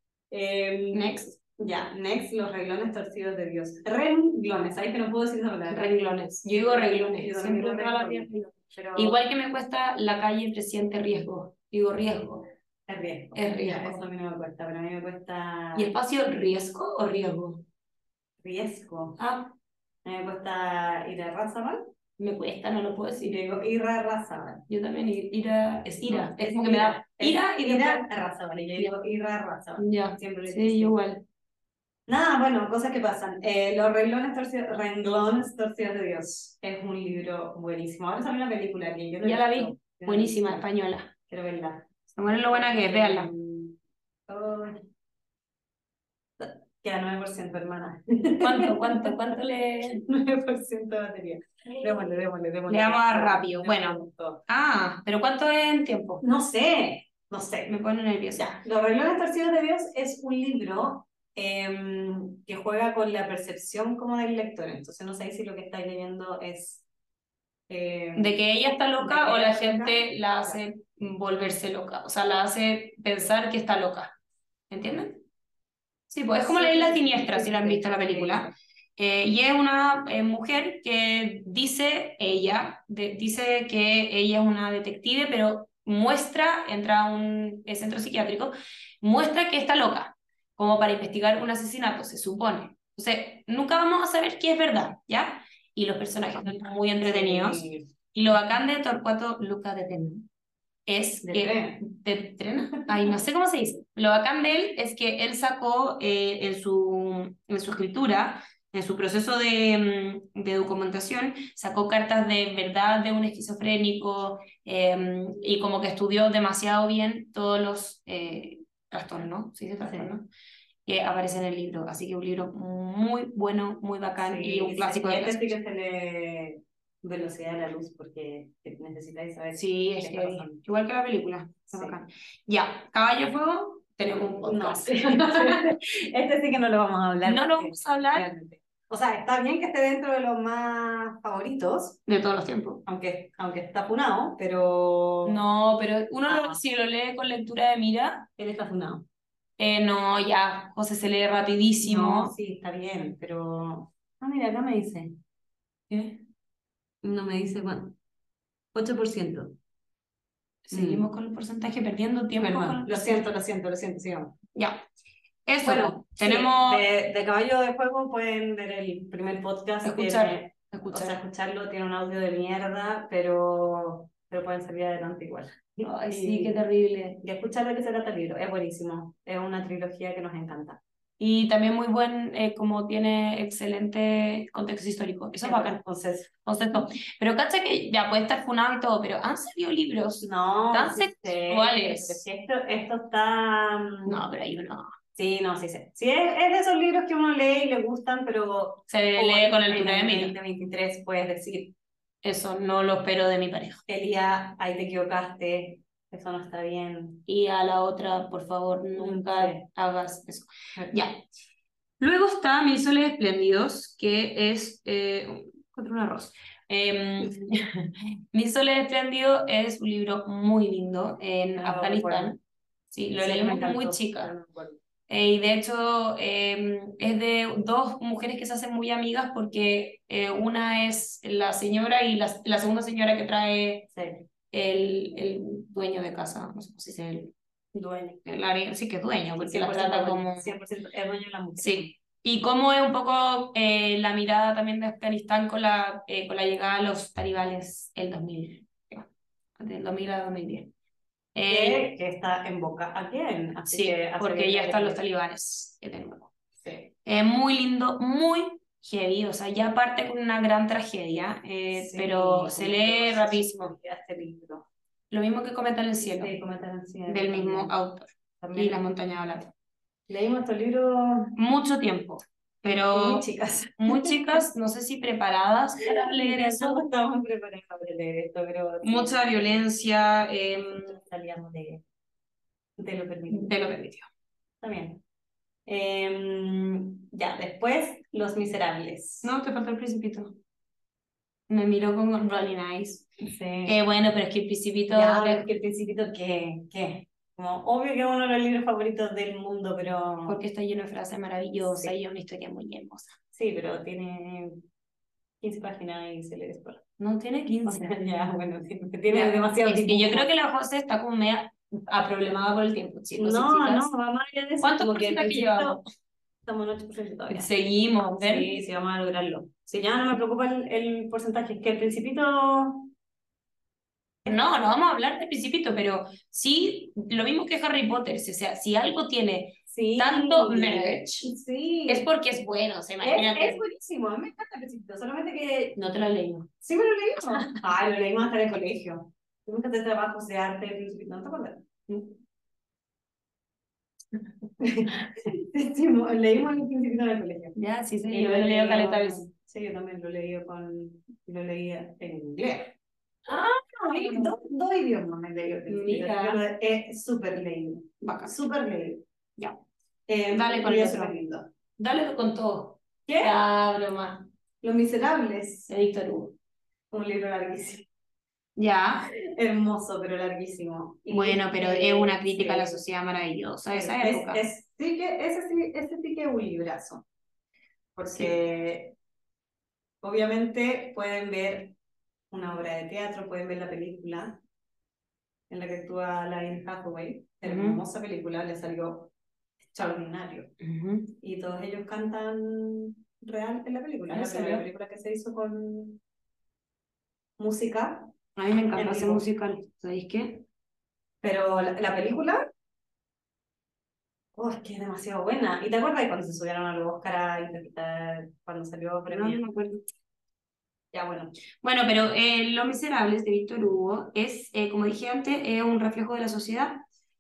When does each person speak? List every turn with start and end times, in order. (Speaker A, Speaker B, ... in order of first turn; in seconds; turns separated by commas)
Speaker A: 0.3-9.2, Speaker B: 0.9-1.4, Speaker B: 5.7-12.5, Speaker A: 12.9-15.9, Speaker B: 13.3-14.0, Speaker B: 15.7-17.6, Speaker A: 18.4-19.2, Speaker B: 19.2-19.6, Speaker A: 20.0-21.9, Speaker B: 22.2-23.4, Speaker A: 23.2-24.6, Speaker B: 24.7-28.1, Speaker A: 26.1-31.0, Speaker B: 29.8-31.2, Speaker A: 32.1-40.6, Speaker B: 39.2-41.1, Speaker A: 41.3-41.9, Speaker B: 42.1-43.3, Speaker A: 42.5-44.9, Speaker A: 46.4-49.2, Speaker B: 48.4-50.0, Speaker A: 49.9-54.4, Speaker B: 52.7-56.2, Speaker A: 56.2-57.7, Speaker B: 57.7-58.6, Speaker A: 58.3-66.8, Speaker A: 67.7-68.4, Speaker B: 68.2-74.2, Speaker A: 69.0-70.6, Speaker B: 74.7-75.2, Speaker B: 76.1-100.3, Speaker A: 76.4-78.5, Speaker A: 97.0-97.9, Speaker B: 100.9-120.3, Speaker A: 101.2-101.8, Speaker A: 119.8-120.1, Speaker B: 120.9-125.6, Speaker A: 124.2-130.6, Speaker B: 129.5-135.7, Speaker A: 131.7-132.0, Speaker A: 134.4-142.0, Speaker B: 137.2-138.3, Speaker B: 142.1-142.8, Speaker A: 142.9-145.4, Speaker B: 145.2-148.3, Speaker A: 146.3-146.6, Speaker A: 148.4-149.1, Speaker B: 149.6-152.3, Speaker A: 151.8-155.2, Speaker B: 155.9-156.2, Speaker A: 157.0-158.0, Speaker A: 158.7-159.6, Speaker B: 160.7-163.2, Speaker A: 160.7-161.1, Speaker A: 162.4-164.4, Speaker B: 164.6-164.8, Speaker B: 165.5-166.8, Speaker A: 165.6-176.6, Speaker B: 169.8-171.2, Speaker B: 175.8-177.2, Speaker A: 177.2-180.8, Speaker B: 181.2-185.8, Speaker A: 185.4-186.3, Speaker B: 186.4-192.3, Speaker A: 190.2-194.2, Speaker B: 194.1-194.9, Speaker A: 195.2-201.7, Speaker B: 198.9-200.4, Speaker B: 202.2-203.8, Speaker A: 203.9-207.2, Speaker B: 207.3-211.2, Speaker A: 209.0-209.6, Speaker B: 212.0-222.4, Speaker A: 221.6-222.3, Speaker B: 222.9-224.3, Speaker A: 223.2-224.8, Speaker B: 225.1-233.9, Speaker A: 233.9-234.3, Speaker B: 234.5-240.6, Speaker A: 239.4-241.9, Speaker B: 241.6-249.1, Speaker B: 249.6-250.7, Speaker B: 251.3-251.9, Speaker A: 251.5-255.0, Speaker B: 253.7-256.3, Speaker A: 256.6-256.9, Speaker B: 257.0-263.8, Speaker A: 261.7-264.7, Speaker B: 265.1-266.3, Speaker A: 266.1-267.8, Speaker B: 267.1-269.5, Speaker A: 268.4-268.8, Speaker A: 270.1-271.4, Speaker B: 271.4-273.3, Speaker A: 272.9-274.4, Speaker B: 273.8-276.9, Speaker A: 275.9-279.6, Speaker B: 278.8-281.0, Speaker A: 280.7-281.8, Speaker A: 282.8-283.6, Speaker B: 283.3-284.1, Speaker A: 284.6-285.0, Speaker A: 285.7-289.4, Speaker B: 289.2-290.4, Speaker B: 291.5-293.1, Speaker A: 293.2-293.8, Speaker B: 293.6-295.5, Speaker A: 294.9-300.4, Speaker B: 300.3-303.2, Speaker A: 301.6-301.9, Speaker A: 303.3-304.6, Speaker A: 305.4-306.8, Speaker B: 307.0-308.0, Speaker A: 307.6-310.3, Speaker B: 309.1-313.9, Speaker A: 313.1-315.8, Speaker B: 314.6-315.8, Speaker A: 316.4-317.5, Speaker B: 317.3-318.5, Speaker A: 318.2-322.9, Speaker B: 324.3-331.3, Speaker A: 329.7-332.1, Speaker B: 331.9-333.6, Speaker A: 333.0-335.8, Speaker B: 335.8-336.5, Speaker A: 336.6-341.6, Speaker B: 341.9-342.2, Speaker A: 344.6-347.6, Speaker B: 347.6-349.3, Speaker A: 348.1-352.8, Speaker B: 353.3-354.3, Speaker A: 353.9-359.0, Speaker B: 355.7-356.4, Speaker B: 358.0-358.4, Speaker A: 360.1-361.5, Speaker B: 360.3-361.2, Speaker B: 361.8-364.3, Speaker A: 363.1-363.4, Speaker A: 364.6-365.7, Speaker B: 365.7-366.4, Speaker A: 366.9-367.9, Speaker B: 368.6-369.1, Speaker A: 369.1-372.8, Speaker B: 371.1-374.4, Speaker A: 373.7-377.1, Speaker A: 378.0-378.9, Speaker A: 380.0-381.8, Speaker A: 382.3-384.4, Speaker A: 385.5-389.1, Speaker B: 387.4-387.8, Speaker A: 389.6-390.5, Speaker B: 390.6-391.1, Speaker A: 391.2-396.0, Speaker B: 394.1-394.7, Speaker A: 397.4-398.1, Speaker B: 398.4-400.4, Speaker A: 398.7-399.2, Speaker A: 401.2-402.4, Speaker A: 404.4-409.4, Speaker B: 409.1-409.8, Speaker A: 410.9-411.3, Speaker B: 411.6-416.8